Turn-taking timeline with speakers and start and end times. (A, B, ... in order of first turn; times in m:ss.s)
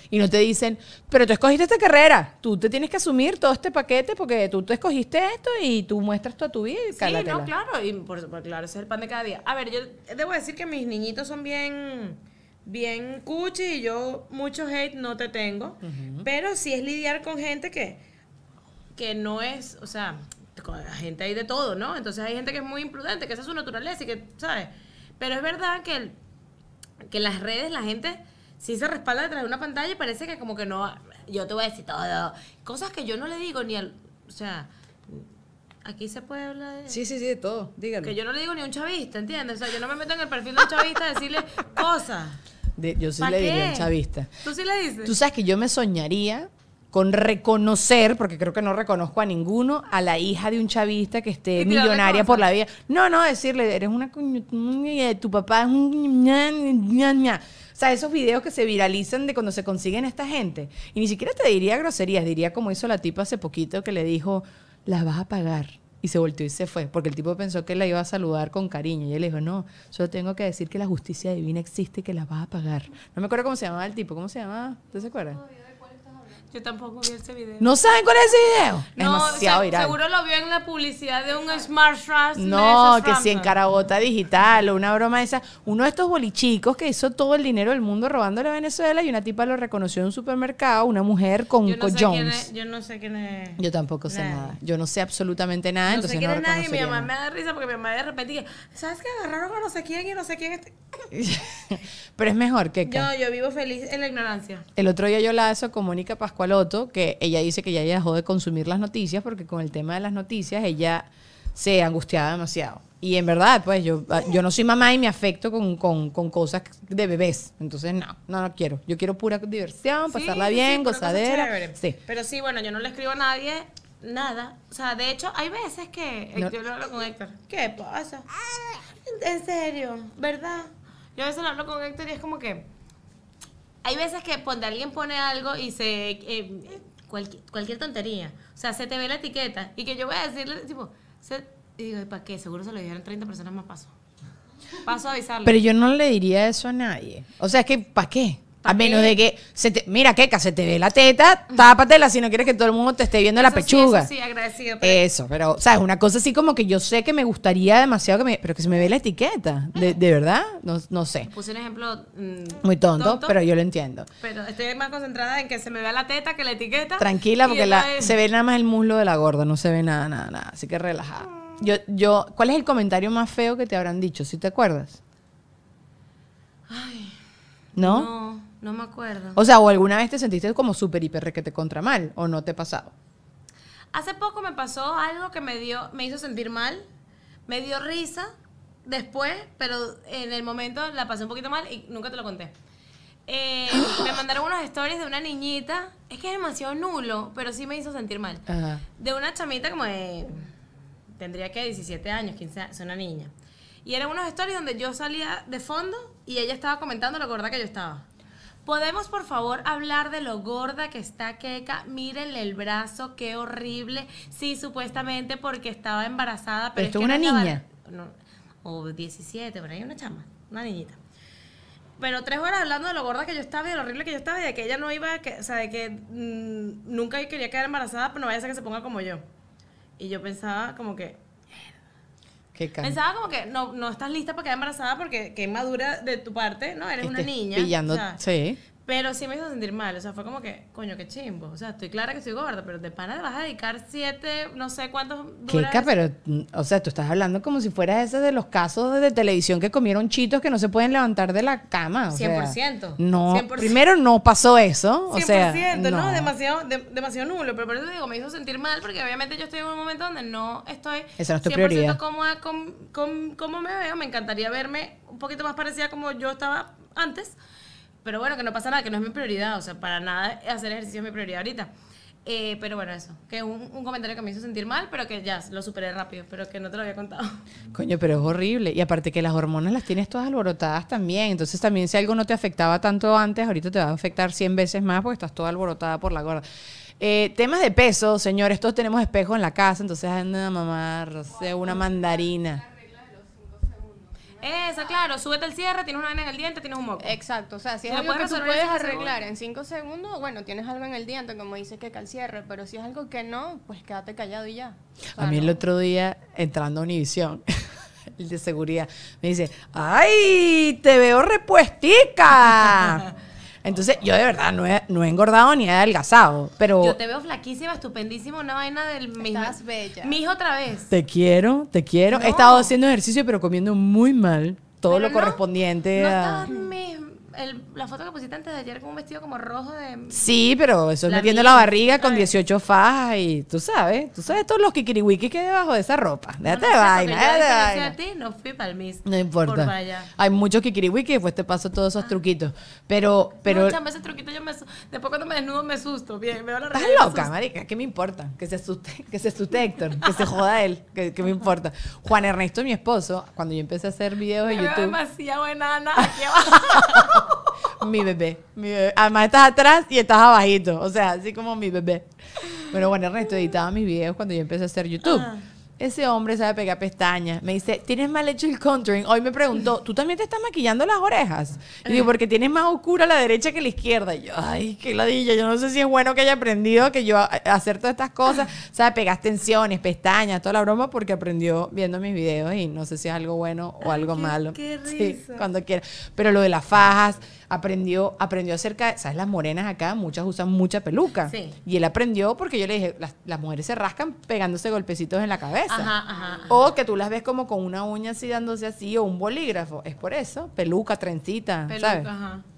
0:00.1-0:07.5 A
0:06.9-0:18.0 B
0:15.8-0:16.3 A
0:19.0-0:26.2 B
0:27.0-0:35.3 B
0:35.8-0:37.0 B
0:36.9-0:38.2 A
0:38.0-0:42.4 B
0:42.8-0:44.3 A
0:43.2-0:45.2 B
0:45.0-1:15.4 A
0:51.6-0:52.5 B
1:15.6-1:16.3 C
1:16.5-1:17.7 B
1:17.6-1:20.0 A
1:18.9-1:23.6 B
1:22.4-1:32.5 A
1:31.6-1:34.6 B
1:33.6-1:37.1 A
1:35.9-1:41.0 B
1:41.1-1:43.1 A
1:42.8-1:44.7 B
1:44.8-2:02.0 A
2:00.1-2:12.7 B
2:13.8-2:23.9 B
2:24.8-2:25.6 B
2:25.4-2:34.1 A
2:28.6-2:29.2 B
2:33.4-2:35.0 B
2:34.8-2:41.3 A
2:41.3-2:43.4 B
2:42.6-2:44.1 A
2:44.2-2:48.2 B
2:47.0-2:55.0 A
2:56.7-2:57.2 B
2:57.8-2:58.1 A
2:57.8-2:59.4 B
2:59.4-3:02.9 A
3:03.9-3:06.9 B
3:07.5-3:08.3 B
3:08.8-3:12.5 B
3:13.3-3:18.4 B
3:18.5-3:18.8 A
3:19.0-3:20.5 B
3:21.1-3:23.3 B
3:23.8-3:28.1 B
3:28.6-3:41.0 B
3:36.8-3:37.6 A
3:42.0-3:49.2 B
3:50.0-3:51.2 B
3:52.5-3:53.0 A
3:52.8-3:58.2 B
3:57.0-3:58.6 A
3:58.8-4:06.0 B
4:05.5-4:16.3 A
4:12.1-4:13.8 B
4:15.1-4:27.4 B
4:21.2-4:22.0 A
4:28.0-4:31.7 B
4:32.2-4:37.4 B
4:37.7-4:46.4 A
4:47.0-4:52.6 A
4:52.6-4:54.4 C
4:54.4-4:57.2 B
4:57.0-5:05.6 C
4:57.8-4:59.2 B
5:05.2-5:07.4 A
5:08.2-5:13.1 A
5:13.6-5:17.0 A
5:16.8-5:20.9 B
5:19.2-5:20.1 C
5:20.9-5:26.5 A
5:22.1-5:22.8 B
5:24.9-5:25.4 B
5:25.9-5:30.3 B
5:30.1-5:38.0 A
5:31.0-5:32.3 B
5:36.4-5:40.1 B
5:39.0-5:43.8 A
5:43.4-5:47.3 B
5:46.7-5:55.0 A
5:54.5-5:57.4 B
5:56.6-5:57.2 A
5:57.8-6:36.0 A
6:05.0-6:05.4 B
6:23.8-6:25.5 B
6:31.3-6:31.6 B
6:35.7-6:36.7 B
6:36.5-6:42.1 A
6:41.7-6:42.4 B